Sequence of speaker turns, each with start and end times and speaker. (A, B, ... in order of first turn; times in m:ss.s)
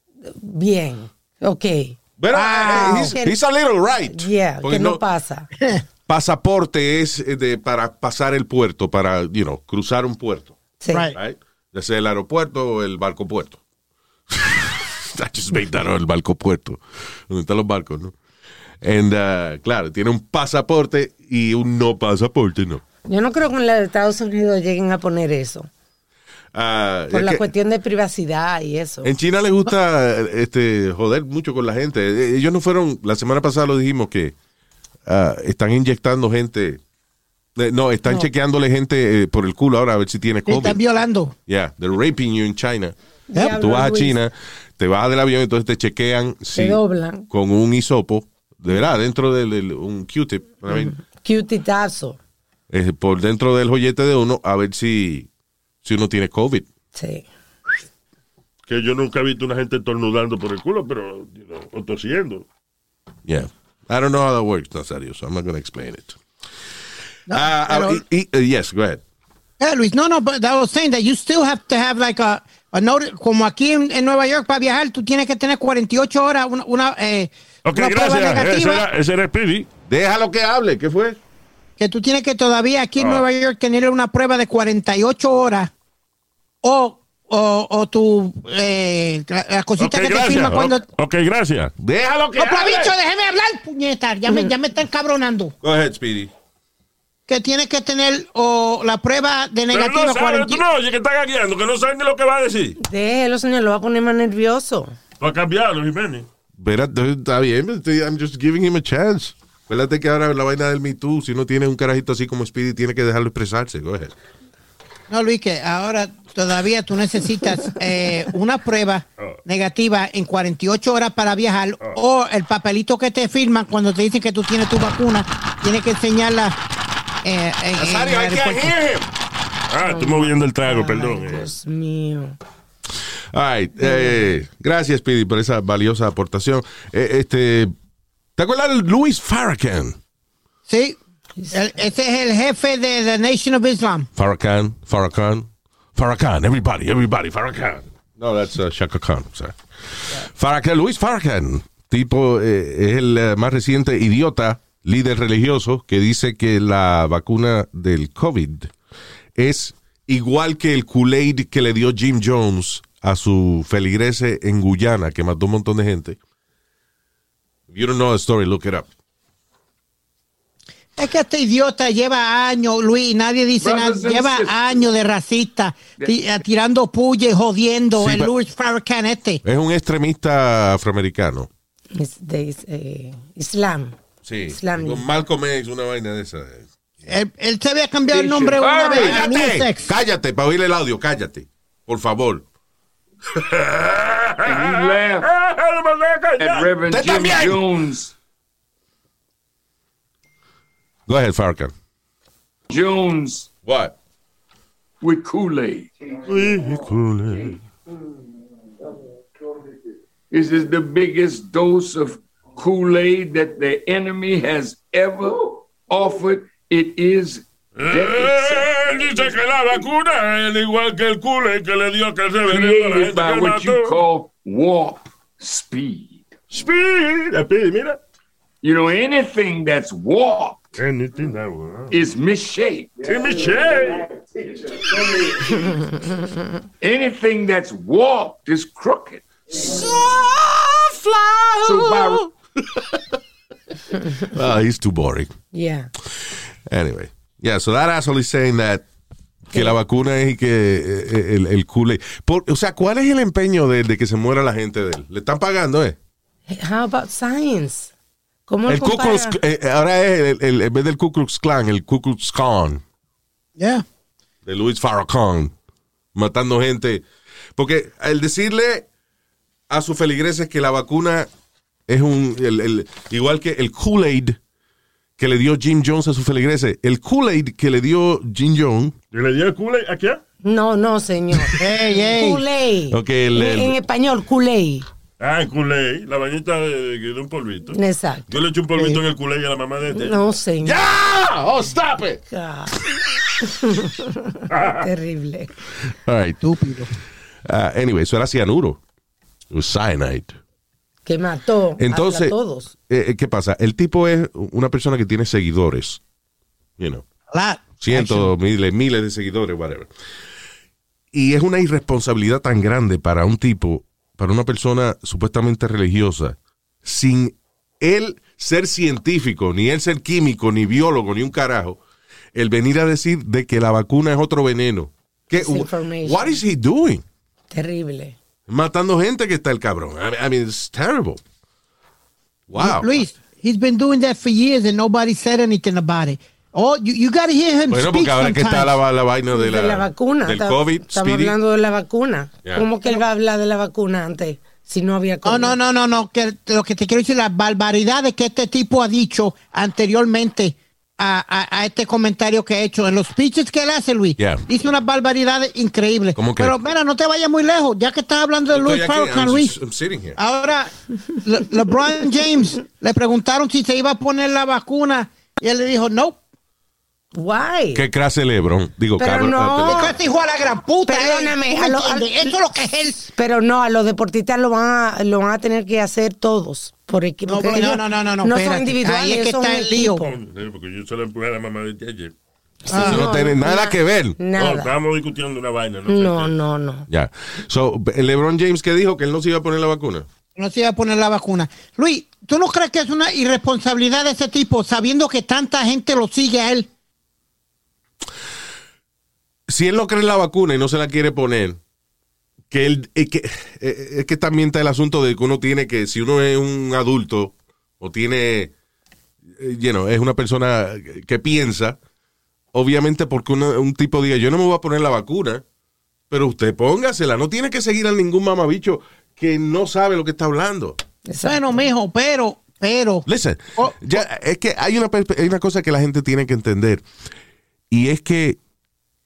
0:00.2-0:02.0 A
0:02.2-0:05.0 B
0:02.3-0:03.2 C
0:02.7-0:03.4 A
0:04.1-0:05.5 A
0:06.1-0:10.5 B
0:10.8-0:11.1 A
0:11.1-0:13.6 B
0:14.3-0:18.2 B
0:18.8-0:22.8 B
0:23.1-0:25.7 A
0:26.5-0:27.5 B
0:27.1-0:29.1 A
0:29.0-0:34.4 B
0:35.1-0:36.8 B
0:37.6-0:40.8 B
0:40.5-0:41.3 C
0:41.5-0:43.0 B
0:43.3-0:44.2 A
0:43.5-0:50.9 B
0:46.5-0:47.3 A
0:50.7-0:52.2 A
0:52.7-0:55.3 B
0:55.8-0:56.7 B
0:57.0-0:57.3 A
0:58.7-1:02.5 D
1:03.3-1:06.2 B
1:07.3-1:08.0 C
1:07.3-1:09.0 B
1:09.6-1:18.9 C
1:17.6-1:19.7 D
1:19.9-1:21.2 B
1:21.8-1:25.7 C
1:23.0-1:23.3 D
1:26.6-1:30.8 C
1:29.8-1:31.7 D
1:31.8-1:33.0 B
1:32.4-1:35.5 C
1:35.6-1:36.3 B
1:37.3-1:40.6 C
1:39.7-1:42.8 D
1:42.8-1:44.9 A
1:45.2-1:46.3 D
1:46.6-1:54.1 B
1:55.1-2:06.6 C
2:07.2-2:08.7 C
2:07.7-2:09.1 B
2:09.7-2:11.5 D
2:09.8-2:12.4 A
2:13.3-2:17.8 B
2:13.8-2:14.2 A
2:18.4-2:20.0 B
2:20.7-2:21.0 C
2:21.5-2:24.1 C
2:24.2-2:38.7 B
2:39.4-2:46.2 B
2:47.7-2:48.9 B
2:51.0-2:59.4 C
2:53.6-2:54.9 E
2:58.0-2:58.3 B
2:59.4-3:01.5 B
3:02.0-3:04.0 A
3:04.2-3:06.7 B
3:04.5-3:05.0 A
3:07.1-3:09.8 C
3:08.1-3:09.3 E
3:08.9-3:12.4 B
3:13.3-3:16.7 D
3:14.4-3:15.3 E
3:16.4-3:18.1 E
3:16.9-3:17.6 B
3:21.1-3:21.7 B
3:22.7-3:23.5 E
3:23.6-3:24.0 B
3:25.0-3:25.9 E
3:26.2-3:27.6 D
3:30.3-3:39.2 E
3:37.8-3:44.0 D
3:42.5-3:46.3 E
3:46.5-3:48.0 D
3:48.6-3:50.6 E
3:50.8-3:52.0 D
3:51.9-3:53.2 E
3:53.1-3:54.1 D
3:54.4-3:56.0 E
3:56.8-3:59.6 E
3:59.5-4:03.2 B
4:01.6-4:02.3 E
4:04.2-4:05.3 B
4:05.5-4:05.9 A
4:06.7-4:08.8 B
4:09.5-4:16.0 B
4:16.5-4:17.9 A
4:18.5-4:19.4 A
4:18.7-4:22.8 B
4:23.6-4:23.8 C
4:24.5-4:25.5 B
4:26.2-4:27.0 B
4:27.6-4:28.9 B
4:29.7-4:31.3 B
4:31.9-4:34.4 B
4:35.2-4:39.0 B
4:39.1-4:40.2 D
4:40.4-4:44.9 A
4:41.6-4:42.4 C
4:42.9-4:43.8 B
4:45.2-4:47.8 D
4:47.7-4:48.3 A
4:48.3-4:50.3 D
4:49.9-4:50.9 A
4:50.6-4:52.2 B
4:52.3-4:55.5 A
4:54.5-4:54.9 D
4:55.9-4:56.4 B
4:56.4-4:56.9 C
4:57.5-4:58.8 B
4:59.5-5:00.4 B
5:01.1-5:02.7 A
5:01.8-5:02.4 B
5:02.9-5:06.0 B
5:06.8-5:07.0 B
5:07.3-5:08.3 C
5:07.8-5:09.9 B
5:11.1-5:21.8 B
5:22.3-5:27.0 B
5:25.3-5:26.4 A
5:27.5-5:28.2 A
5:28.5-5:31.2 B
5:32.5-5:33.0 B
5:32.6-5:38.8 C
5:37.7-5:41.4 B
5:39.3-5:45.6 A
5:45.2-5:59.6 C
5:54.2-5:54.5 B
5:56.2-5:56.6 B
5:58.5-6:00.2 B
6:00.2-6:00.7 C
6:01.2-6:06.2 C
6:07.1-6:07.9 A
6:07.8-6:10.0 B
6:09.0-6:09.9 A
6:09.7-6:13.1 C
6:10.9-6:12.4 A
6:13.1-6:20.1 A
6:17.3-6:20.0 C
6:20.0-6:22.1 D
6:22.6-6:24.7 A
6:22.7-6:23.0 C
6:22.7-6:24.2 B
6:24.4-6:26.3 D
6:25.9-6:26.9 A
6:26.9-6:30.1 B
6:30.4-6:36.7 C
6:39.5-6:41.6 B
6:42.5-6:48.5 B
6:49.4-6:51.8 B
6:52.5-6:55.4 B
6:56.1-7:00.8 B
7:01.1-7:01.6 A
7:01.2-7:03.0 C
7:03.1-7:06.8 B
7:03.6-7:04.0 C
7:07.7-7:08.4 B